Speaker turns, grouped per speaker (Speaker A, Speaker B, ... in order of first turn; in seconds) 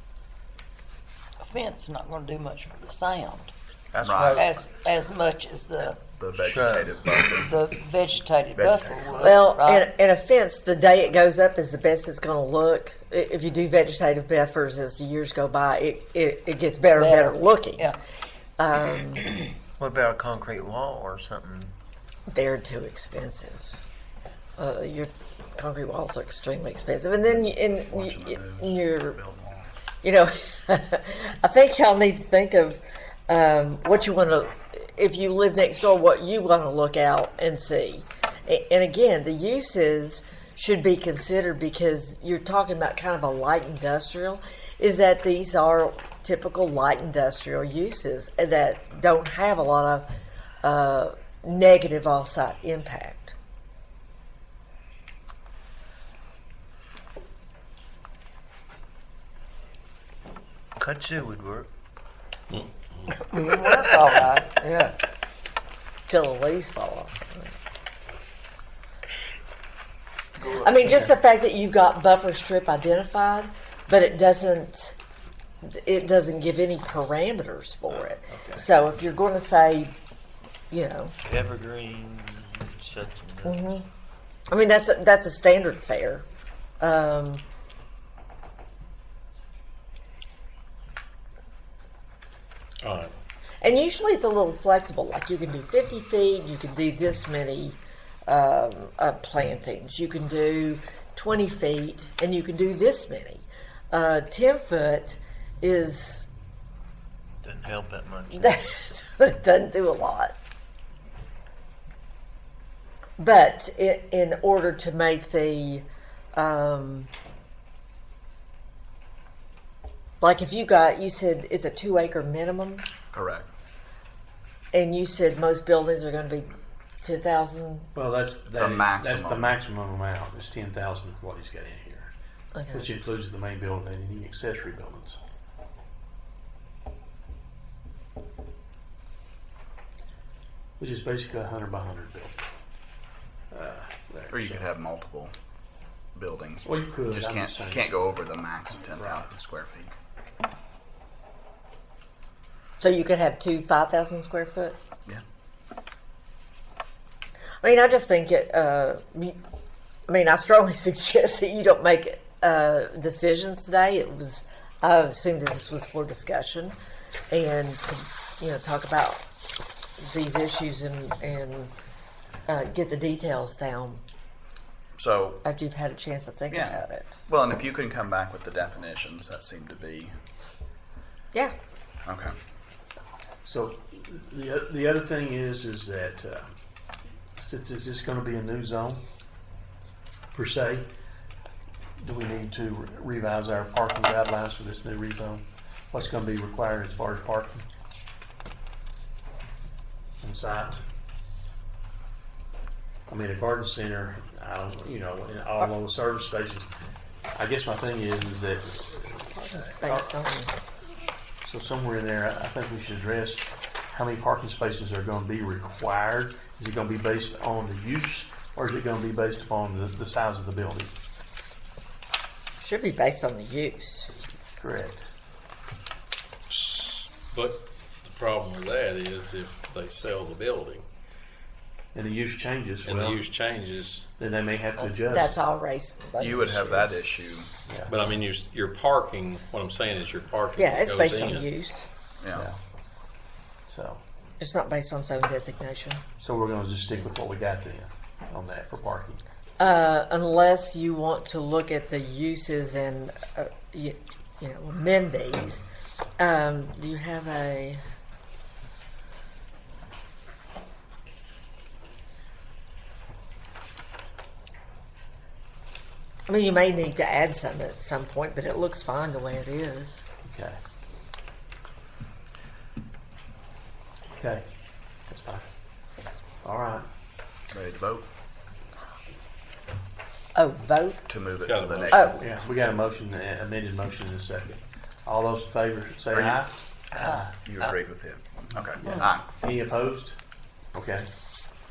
Speaker A: 1.4-3.5, 4.3-6.0, 7.3-9.9, 16.9-18.0, 63.2-65.0
Speaker B: 3.9-4.5, 6.4-7.2, 19.8-21.7, 60.8-61.7, 63.6-64.2, 78.3-78.6, 81.2-83.7, 107.4-108.7
Speaker C: 4.0-4.7, 6.0-7.6, 8.6-9.1, 27.3-29.7, 123.1-123.5, 128.5-129.6, 144.3-145.3, 146.2-149.9, 175.0-175.4, 176.5-180.1, 182.1-182.3, 236.2-237.5, 242.2-242.5, 277.5-278.1, 281.1-282.2, 286.1-286.4, 287.4-289.3
Speaker D: 9.2-17.9, 18.6-19.4, 22.3-23.8, 24.6-29.2, 30.0-50.1, 50.6-53.4, 66.1-67.5, 70.4-75.0, 75.6-79.9, 80.7-81.2, 83.5-83.9, 84.5-86.2, 86.8-87.4, 93.6-106.3, 108.3-110.3, 113.2-117.1, 120.2-122.8, 124.7-127.9, 132.6-132.9, 152.8-154.8, 157.6-159.4, 160.1-166.8, 167.3-169.2, 170.0-171.7, 172.5-174.0, 175.4-177.2, 209.3-210.6, 222.6-224.1, 235.0-236.9, 240.6-241.9, 244.4-246.0, 249.6-255.7, 256.2-257.8, 266.3-270.0, 280.4-281.1, 281.9-282.2
Speaker E: 92.8-93.1, 226.5-230.8, 232.8-234.1, 237.9-241.5, 281.4-282.1
Speaker F: 128.0-132.1, 132.7-135.2, 140.8-142.4, 143.5-144.7, 146.6-148.1, 148.9-149.3, 183.4-186.5, 187.4-189.0, 190.3-190.9, 192.0-197.6, 200.2-200.8, 203.1-206.7, 207.3-210.1, 211.4-220.9, 224.6-225.0, 231.9-233.2, 234.2-235.4, 237.7-237.9, 243.7-244.0, 246.2-249.2, 270.3-270.6, 274.2-274.4, 275.1-275.5, 276.4-276.9, 282.1-287.4, 288.9-290.2, 290.8-291.1